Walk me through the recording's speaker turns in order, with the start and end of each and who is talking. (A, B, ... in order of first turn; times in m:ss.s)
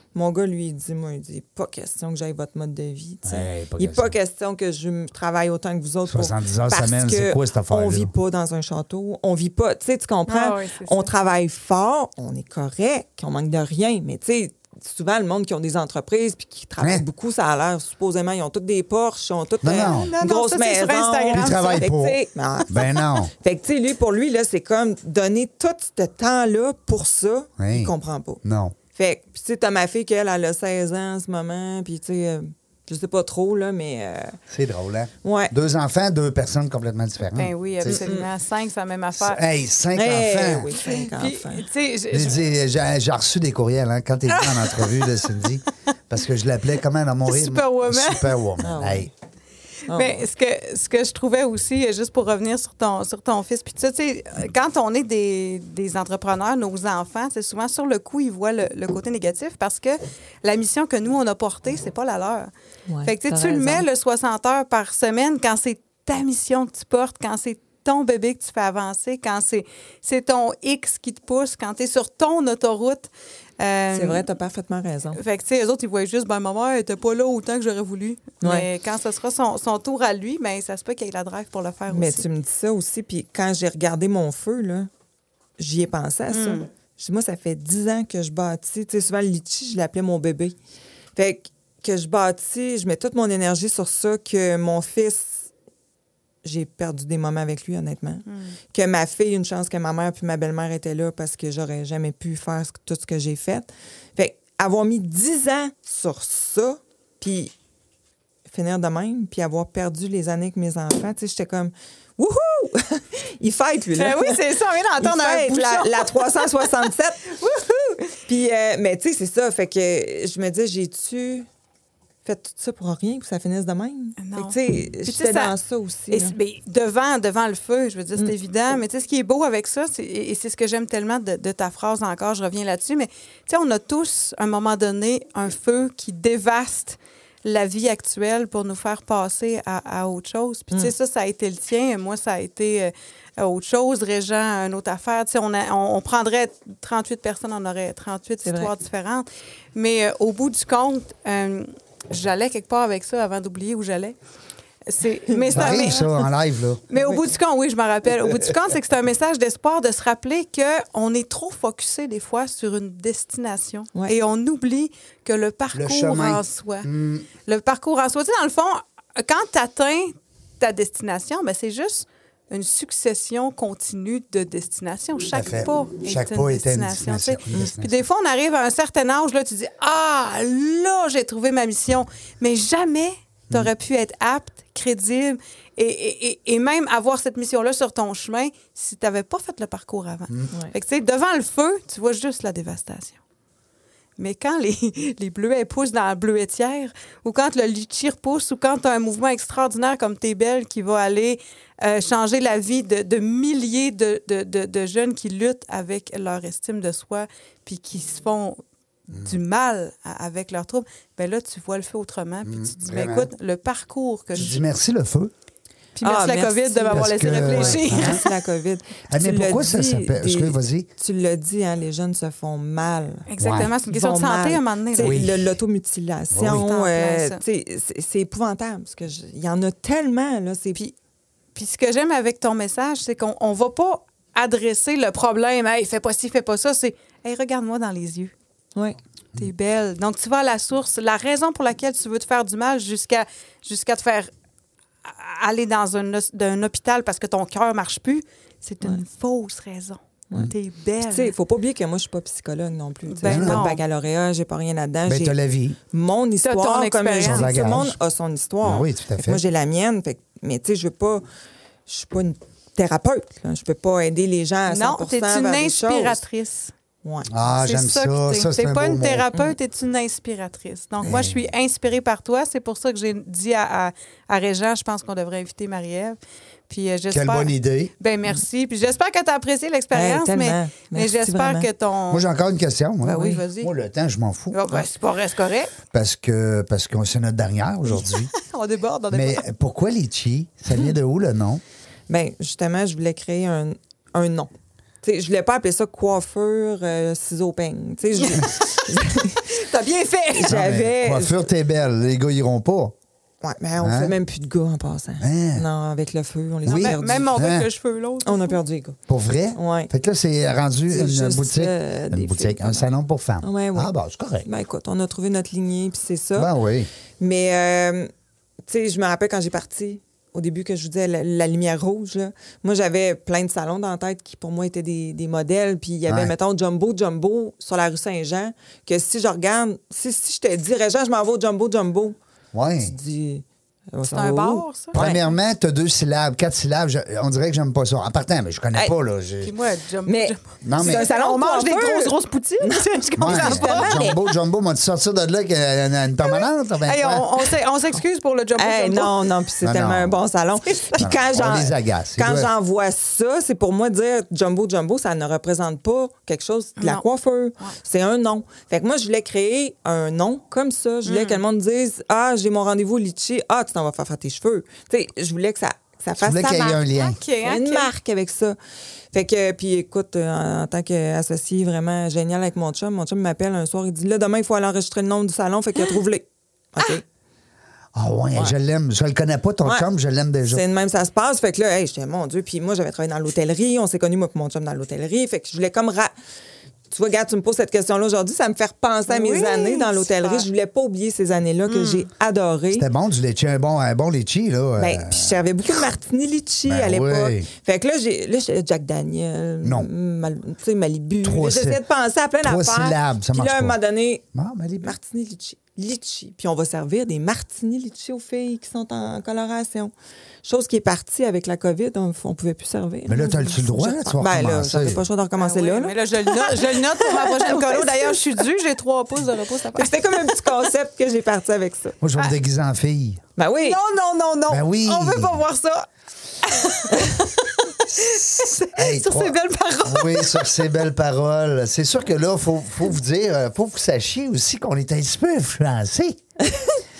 0:00.1-0:28.4 A
0:03.2-0:04.1 B
0:06.1-0:08.1 B
0:10.3-0:11.1 C
0:19.6-0:20.1 B
0:19.7-0:21.9 C
0:21.3-0:23.3 B
0:27.6-0:28.8 B
0:28.9-0:34.4 A
0:34.5-0:38.0 B
0:35.2-0:35.5 A
0:37.3-0:39.4 C
0:37.8-0:38.3 A
0:39.2-0:40.7 B
0:39.9-0:41.6 A
0:40.8-0:42.4 C
0:42.1-0:49.1 B
0:44.3-0:45.3 C
0:47.2-0:48.3 C
0:48.6-0:49.1 A
0:49.9-0:50.2 A
0:49.9-1:02.5 C
1:02.9-1:03.8 A
1:03.0-1:14.2 C
1:13.9-1:15.2 A
1:15.2-1:22.3 C
1:18.4-1:18.7 A
1:21.9-1:24.9 A
1:25.6-1:30.6 A
1:26.3-1:26.7 C
1:31.2-1:35.4 A
1:36.4-1:47.5 A
1:38.3-1:38.5 C
1:48.5-1:57.4 A
1:54.0-1:56.7 C
1:57.4-1:58.1 C
1:58.2-2:01.5 A
2:02.2-2:06.3 A
2:04.2-2:05.5 C
2:06.1-2:34.2 C
2:28.4-2:28.7 A
2:34.8-2:36.3 C
2:35.3-2:36.0 A
2:35.5-2:36.8 B
2:36.9-2:46.9 C
2:36.9-2:37.3 A
2:45.7-2:47.3 B
2:47.4-3:13.2 C
2:55.3-2:58.0 B
3:14.2-3:34.6 C
3:32.4-3:33.3 B
3:34.4-3:35.3 B
3:36.0-3:38.3 C
3:36.0-3:43.3 A
3:36.9-3:38.2 B
3:39.1-3:40.9 B
3:43.3-3:45.2 C
3:43.4-3:43.7 B
3:43.9-3:50.8 A
3:45.0-3:45.5 B
3:46.3-3:46.6 B
3:46.4-3:47.4 C
3:51.6-3:58.3 C
3:59.3-4:04.3 C
4:05.0-4:11.3 C
4:10.3-4:15.4 A
4:13.1-4:13.8 C
4:13.2-4:13.7 B
4:15.0-4:15.8 B
4:15.9-4:21.2 A
4:16.4-4:17.6 C
4:17.2-4:18.0 B
4:18.6-4:19.4 B
4:21.9-4:26.2 A
4:24.7-4:26.7 C
4:27.0-4:27.3 A
4:27.3-4:29.3 B
4:27.5-4:36.2 C
4:31.0-4:31.4 B
4:36.7-4:42.2 C
4:37.1-4:37.9 B
4:39.9-4:41.7 A
4:42.1-4:44.9 B
4:43.0-4:43.7 C
4:44.5-4:45.8 C
4:45.9-4:48.3 B
4:47.9-4:49.4 C
4:49.1-4:51.6 B
4:52.1-4:54.5 A
4:55.0-4:59.5 A
4:58.2-5:00.6 C
5:00.3-5:01.5 A
5:00.4-5:02.9 B
5:03.4-5:07.3 A
5:03.8-5:04.2 B
5:05.2-5:05.6 B
5:06.6-5:07.7 B
5:06.6-5:08.6 C
5:08.2-5:09.0 A
5:09.1-5:14.5 B
5:09.5-5:09.9 A
5:10.9-5:12.9 A
5:13.4-5:13.9 A
5:14.4-5:16.5 A
5:16.3-5:16.9 B
5:17.2-5:18.1 A
5:18.6-5:32.2 A
5:26.1-5:26.3 B
5:32.5-5:32.9 B
5:32.8-5:35.2 A
5:34.1-5:35.2 C
5:34.9-5:39.5 B
5:39.4-5:44.2 C
5:40.0-5:44.2 A
5:40.6-5:41.1 B
5:43.2-5:47.3 B
5:46.2-5:49.2 C
5:48.6-6:06.8 A
5:49.6-5:50.2 B
5:51.0-5:52.5 B
5:56.8-5:57.0 C
6:01.0-6:01.4 C
6:06.2-6:07.2 B
6:06.9-6:07.9 C
6:07.4-6:08.6 A
6:09.1-6:17.0 A
6:17.9-6:20.6 B
6:20.5-6:26.1 A
6:26.9-6:32.8 A
6:29.1-6:30.4 C
6:31.6-6:32.1 C
6:32.7-6:35.4 B
6:34.8-6:44.2 A
6:36.7-6:37.5 B
6:39.6-6:39.9 B
6:41.2-6:41.8 B
6:42.4-6:43.8 B
6:44.3-6:44.9 B
6:44.8-6:49.9 A
6:50.4-6:58.2 A
6:53.1-6:55.0 B
6:55.4-7:00.5 C
6:59.7-7:02.0 A
7:02.0-7:03.2 B
7:03.4-7:03.8 A
7:03.6-7:05.8 C
7:04.5-7:05.4 B
7:06.4-7:10.6 C
7:07.9-7:16.2 B
7:16.4-7:16.7 A